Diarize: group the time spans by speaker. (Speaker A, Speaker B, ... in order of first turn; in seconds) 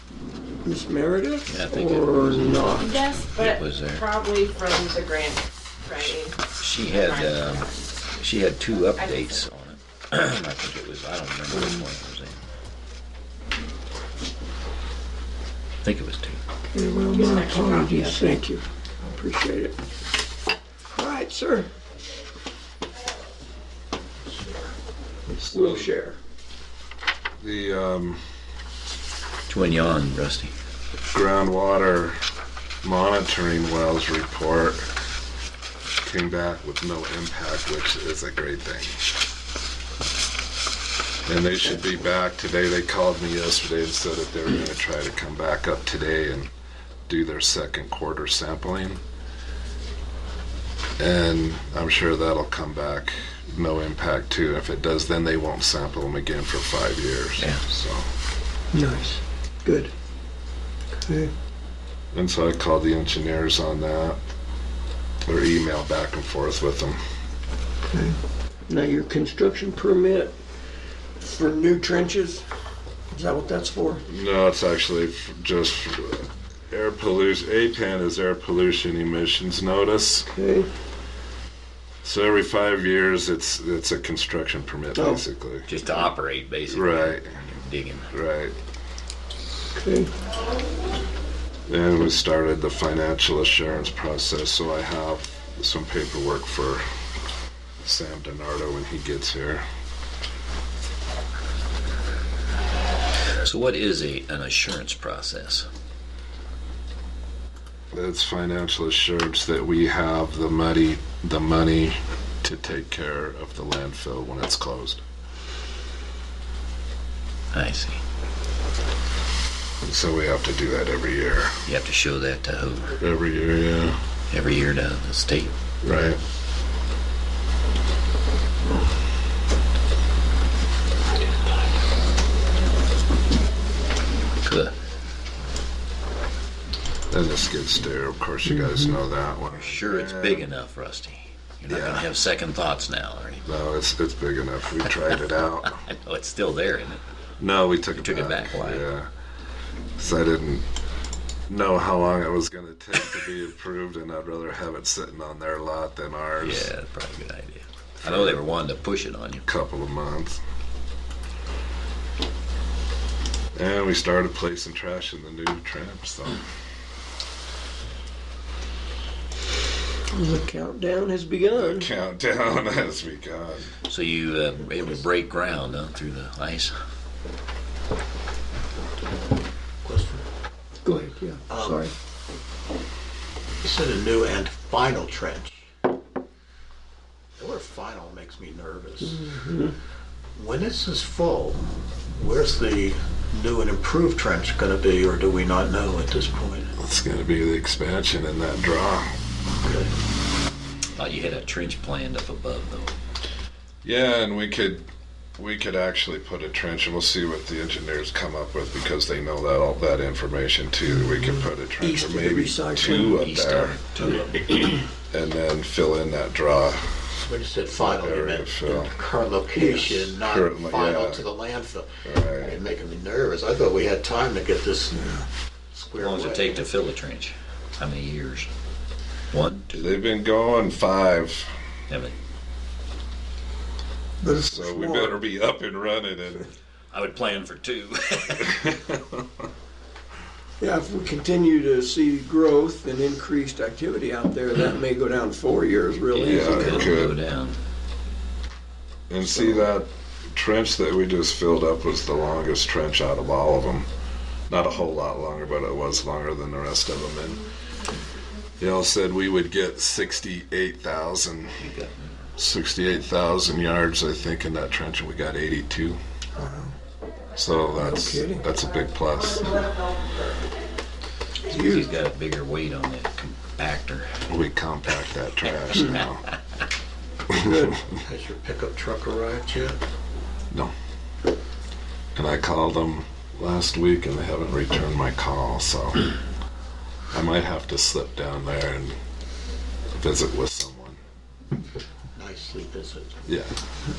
Speaker A: 0.6-2.9, 16.7-19.8, 20.9-21.7, 25.4-26.2, 58.7-59.9, 61.1-61.3, 67.9-70.3, 71.2-72.5, 73.1-74.0, 80.3-80.7, 85.0-85.2, 89.7-90.1, 138.5-139.0, 170.1-171.9, 180.8-181.9, 189.0-189.8, 210.9-213.3, 214.0-214.3, 219.5-220.1, 225.0-225.2, 234.2-235.2, 240.6-247.0, 249.3-249.7, 266.4-266.8, 267.8-268.5, 271.5-271.9, 277.3-277.8
Speaker B: 1.5-2.6, 3.3-4.0, 6.0-12.4, 15.8-16.4, 29.5-30.5, 85.7-88.1, 103.4-105.7, 117.5-118.0, 121.7-123.0, 124.3-125.5, 134.4-134.7, 139.5-143.4, 145.8-147.0, 147.9-148.9, 156.4-159.4, 173.9-176.8, 201.0-202.9, 212.8-214.3, 225.9-228.5, 229.3-229.9, 231.9-232.2, 236.9-238.7, 246.1-247.6, 261.6-262.1, 271.5-274.1, 275.4-276.2
Speaker C: 2.8-7.7, 8.9-9.4, 17.1-18.3
Speaker D: 25.4-26.0, 27.4-28.2, 31.1-32.2, 32.8-34.9, 36.0-39.1, 41.2-46.5, 47.1-49.0, 51.0-58.1, 62.1-64.2, 65.2-67.0, 74.1-80.3, 82.0-86.1, 86.7-87.4, 88.1-88.5, 91.7-96.8, 97.8-99.7, 107.9-115.0, 119.8-121.6, 123.0-124.0, 125.8-126.2, 137.1-140.4, 141.7-142.1, 143.4-145.8, 147.4-149.1, 150.0-150.7, 151.5-156.7, 158.0-158.4, 159.4-160.4, 163.6-166.5, 171.6-173.7, 196.8-199.1, 203.8-213.8, 215.1-216.9, 217.8-218.9, 220.2-221.3, 222.0-222.6, 229.7-231.5, 234.2-236.5, 238.4-239.2, 246.2-247.2, 249.1-253.9, 254.5-257.4, 258.6-261.6, 262.4-266.0, 267.4-269.7, 274.3-276.2, 282.1-286.1, 287.1-289.0, 289.9-291.0, 293.3-293.6
Speaker E: 179.8-180.2, 181.5-181.9, 183.6-185.6, 187.4-189.3, 190.4-196.7, 199.6-199.9, 217.2-225.1, 225.7-226.7, 278.0-279.8, 292.1-293.2